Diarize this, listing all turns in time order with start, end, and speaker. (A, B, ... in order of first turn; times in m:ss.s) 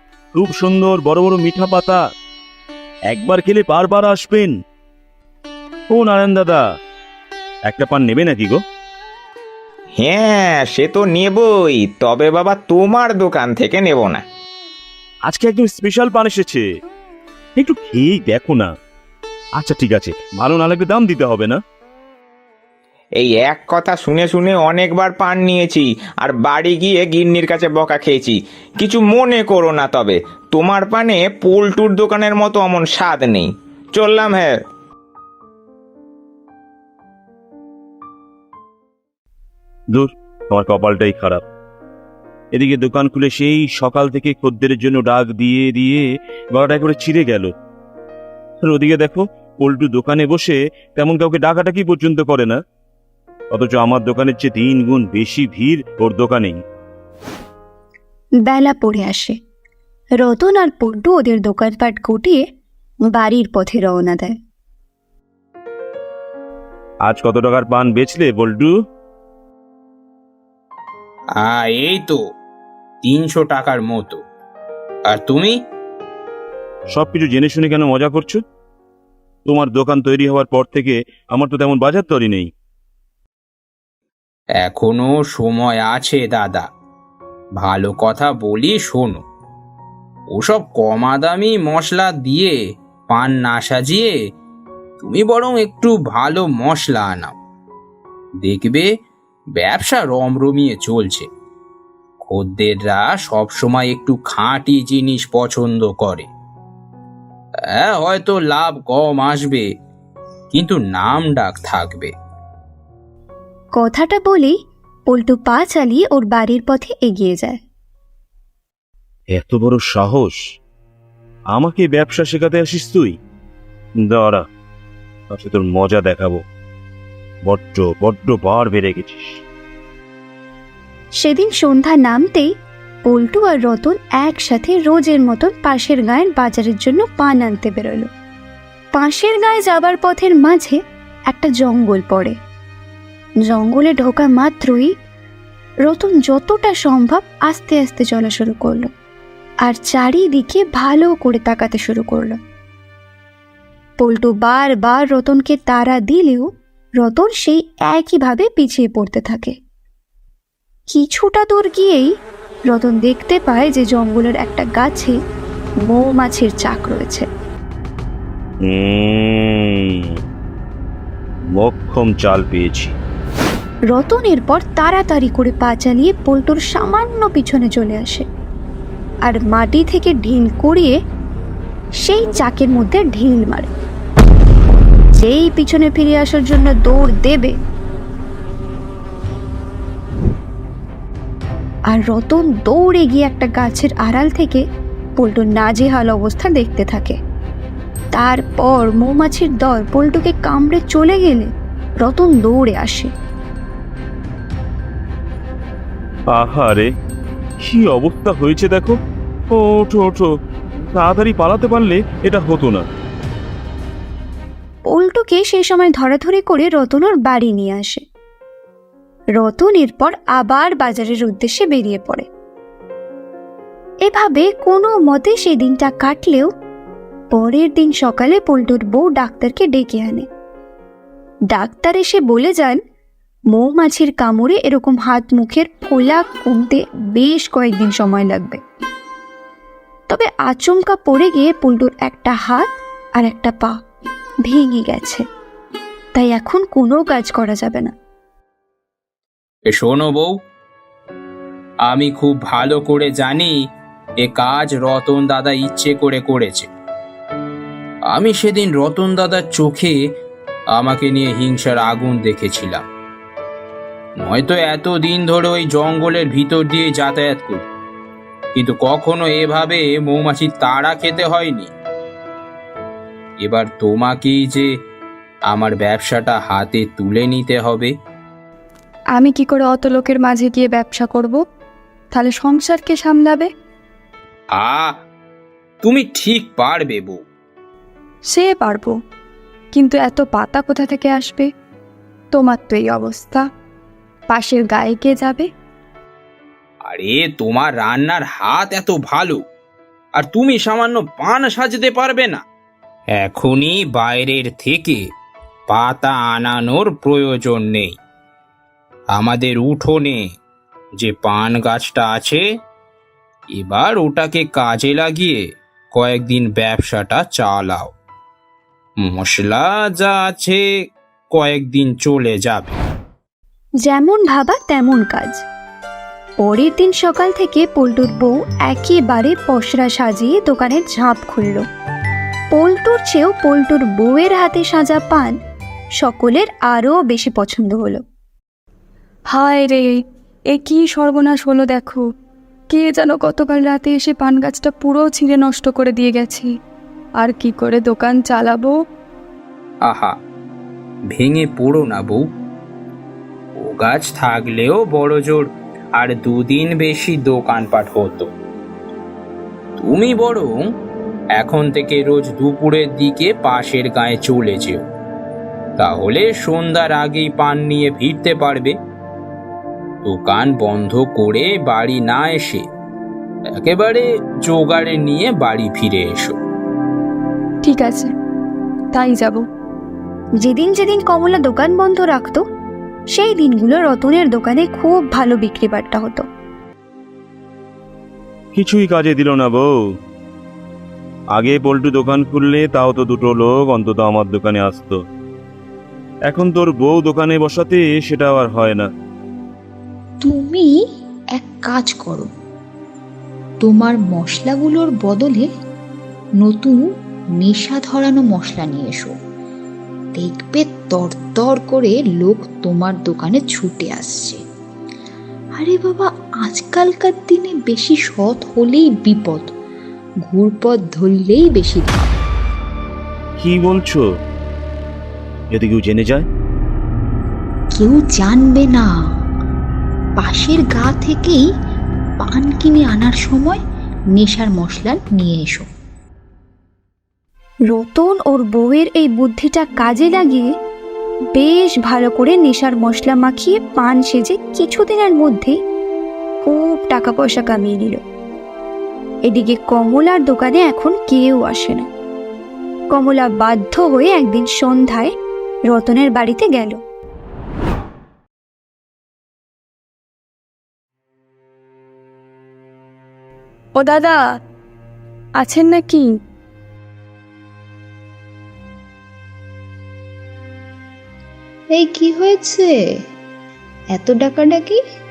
0:00.3-0:02.0 A
0:03.1-0:04.6 A
0:05.9-0:06.6 A
0:07.6-0:08.6 A
0:10.0-0:14.2 B
0:15.2-0:16.6 A
0:17.6-0:18.7 A
0:19.6-0:21.6 A
0:23.2-0:34.6 B
0:39.9-0:41.4 A
0:42.5-0:46.0 A
0:46.5-0:47.5 A
0:48.6-0:52.6 A
0:53.5-0:56.6 A
0:58.5-0:59.3 C
1:00.2-1:02.4 C
1:03.1-1:04.4 C
1:07.0-1:08.7 A
1:11.4-1:12.2 D
1:13.0-1:14.2 D
1:15.1-1:15.6 D
1:16.9-1:18.4 A
1:19.5-1:22.5 A
1:24.6-1:26.7 D
1:27.6-1:29.2 D
1:30.3-1:32.5 D
1:33.1-1:34.2 D
1:35.0-1:37.4 D
1:38.4-1:38.9 D
1:39.6-1:41.3 D
1:42.2-1:46.3 D
1:47.8-1:49.7 D
1:50.5-1:52.1 D
1:53.8-1:54.5 C
1:55.1-1:57.6 C
1:59.3-2:00.4 A
2:01.5-2:03.2 A
2:04.1-2:04.4 A
2:05.3-2:06.4 A
2:07.4-2:09.4 A
2:11.2-2:12.5 C
2:13.1-2:18.1 C
2:19.0-2:20.8 C
2:21.3-2:22.4 C
2:23.5-2:24.9 C
2:25.9-2:28.9 C
2:29.7-2:32.4 C
2:34.0-2:36.5 C
2:37.0-2:39.5 C
2:40.9-2:42.1 C
2:42.7-2:45.2 C
2:45.9-2:47.3 C
2:48.7-2:49.7 A
2:51.6-2:53.0 A
2:53.9-2:58.2 C
2:59.2-3:00.9 C
3:02.0-3:03.7 C
3:05.2-3:07.6 C
3:11.9-3:14.6 C
3:15.2-3:17.2 C
3:18.1-3:21.5 C
3:22.0-3:23.1 C
3:26.3-3:26.9 A
3:27.6-3:29.0 A
3:29.5-3:30.3 A
3:30.8-3:32.8 A
3:34.9-3:38.0 C
3:39.4-3:42.3 C
3:44.1-3:46.5 C
3:47.3-3:50.2 C
3:51.5-3:52.8 C
3:53.5-3:58.6 C
4:00.1-4:03.7 C
4:04.5-4:05.2 C
4:06.2-4:07.9 C
4:09.7-4:10.3 D
4:11.9-4:13.6 D
4:14.2-4:16.7 D
4:18.1-4:20.0 D
4:20.7-4:22.8 D
4:24.2-4:27.6 D
4:28.6-4:31.7 D
4:33.4-4:34.7 D
4:35.5-4:37.9 D
4:39.2-4:41.4 E
4:42.1-4:43.5 E
4:44.6-4:44.9 D
4:45.8-4:47.2 D
4:48.3-4:48.9 E
4:49.7-4:51.5 E
4:52.3-4:53.4 E
4:54.3-4:55.5 E
4:56.9-4:59.4 D
5:00.2-5:02.4 D
5:03.1-5:05.0 D
5:05.7-5:08.0 D
5:09.1-5:10.2 D
5:11.0-5:12.4 D
5:13.5-5:17.9 D
5:19.0-5:20.6 D
5:21.3-5:22.8 D
5:23.8-5:25.4 C
5:26.4-5:31.6 C
5:32.6-5:35.3 C
5:36.0-5:38.0 C
5:39.3-5:40.0 E
5:40.5-5:42.0 E
5:42.7-5:46.5 E
5:47.2-5:48.7 E
5:49.9-5:50.1 D
5:51.1-5:52.2 D
5:53.6-5:58.3 D
5:59.8-6:00.6 D
6:01.4-6:04.8 D
6:05.8-6:08.7 D
6:10.0-6:12.7 D
6:13.6-6:16.4 D
6:17.6-6:18.1 E
6:18.9-6:19.4 E
6:20.4-6:22.4 C
6:23.1-6:26.2 C
6:28.6-6:29.7 A
6:31.3-6:35.0 A
6:36.3-6:38.9 A
6:40.2-6:40.7 F
6:41.4-6:42.3 F
6:43.6-6:45.5 F
6:46.4-6:46.8 F
6:47.4-6:49.2 F
6:50.2-6:54.4 F
6:55.6-6:59.5 F
7:00.2-7:02.1 F
7:03.4-7:04.0 A
7:05.5-7:06.3 A
7:07.7-7:08.9 F
7:10.2-7:11.4 F
7:12.2-7:13.6 F
7:14.1-7:15.7 F
7:17.7-7:20.5 C
7:21.4-7:25.6 C
7:26.5-7:28.0 C
7:29.3-7:31.9 C
7:32.9-7:35.1 C
7:35.7-7:36.8 C
7:43.8-7:44.2 E
7:45.4-7:46.1 E
7:51.7-7:52.7 F
7:53.9-7:54.8 F